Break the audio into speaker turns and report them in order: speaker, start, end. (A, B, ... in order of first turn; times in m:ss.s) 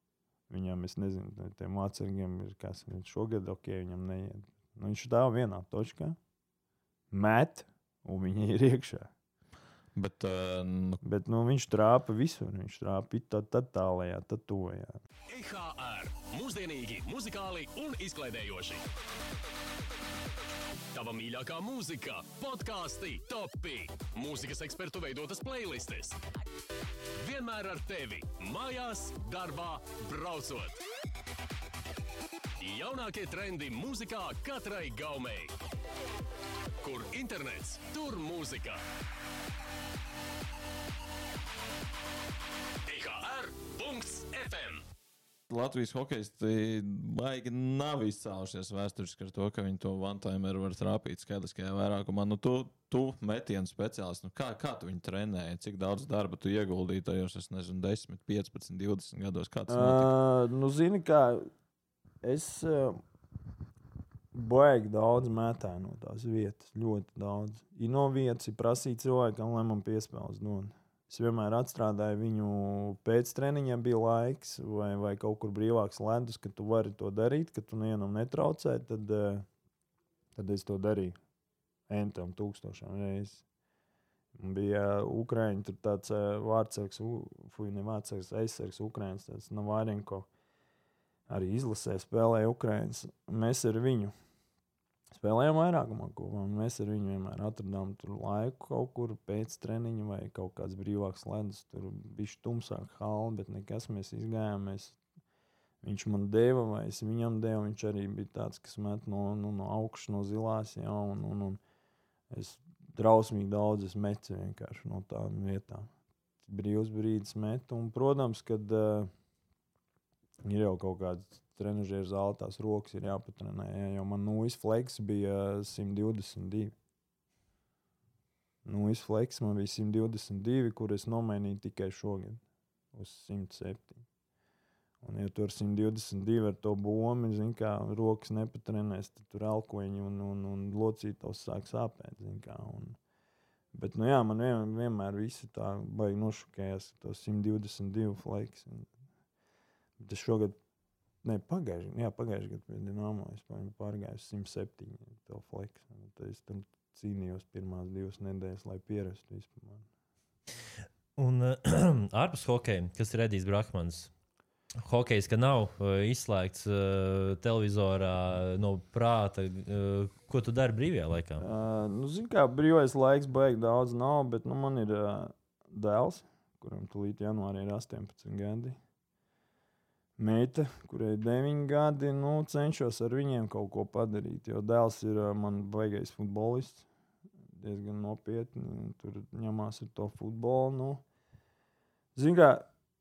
0:00.5-0:06.2 A
0:07.1-0:09.1 A
0:09.9-0:11.0 B
0:11.0-0:15.0 A
0:15.3-0:18.8 C
0:20.9-0:26.2 C
0:27.2-0:30.8 C
0:32.6-0:35.5 C
0:36.8-0:38.8 C
0:42.8-0:44.8 C
0:45.5-1:00.1 B
0:59.7-1:01.5 A
1:02.2-1:03.0 A
1:04.3-1:19.5 A
1:20.3-1:21.2 A
1:21.9-1:23.4 A
1:24.3-1:30.3 A
1:31.3-1:34.1 A
1:35.1-1:45.0 A
1:45.8-1:51.6 A
1:52.3-1:55.9 A
1:56.4-1:59.1 A
2:00.4-2:06.7 A
2:08.6-2:12.4 A
2:12.9-2:14.0 A
2:15.0-2:23.0 A
2:23.7-2:28.9 A
2:30.0-2:30.6 A
2:31.2-2:39.8 A
2:41.2-2:44.1 D
2:44.8-2:51.4 D
2:51.4-2:58.8 A
3:00.2-3:06.8 A
3:07.5-3:11.0 A
3:12.1-3:12.7 A